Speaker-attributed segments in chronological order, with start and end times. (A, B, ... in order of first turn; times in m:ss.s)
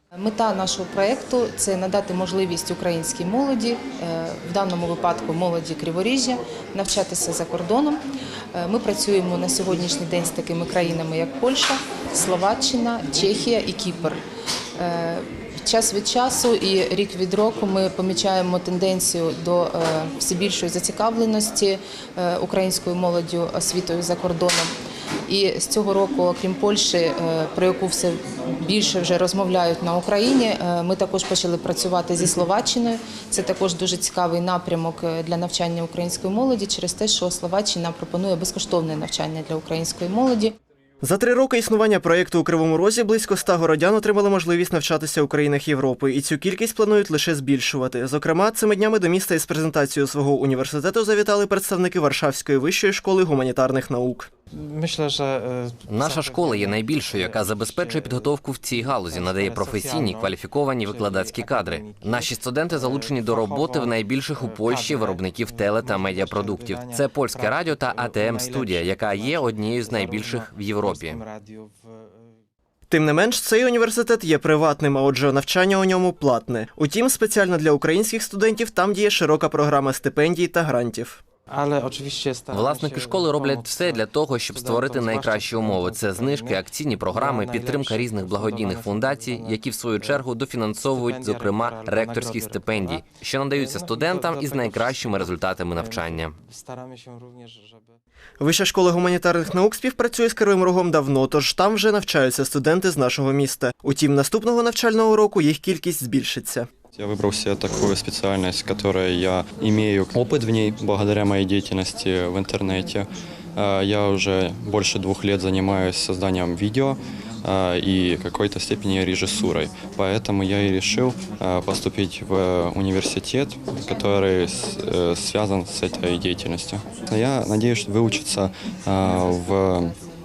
0:00.2-0:08.0 A
0:08.5-0:14.2 A
0:14.8-0:24.7 A
0:25.3-0:40.6 A
0:41.0-0:54.3 B
0:54.5-1:12.4 C
0:55.9-1:11.2 D
1:12.9-1:21.2 B
1:21.5-1:30.2 C
1:22.5-1:36.4 D
1:30.9-1:38.0 C
1:38.4-1:46.7 B
1:47.0-2:10.0 E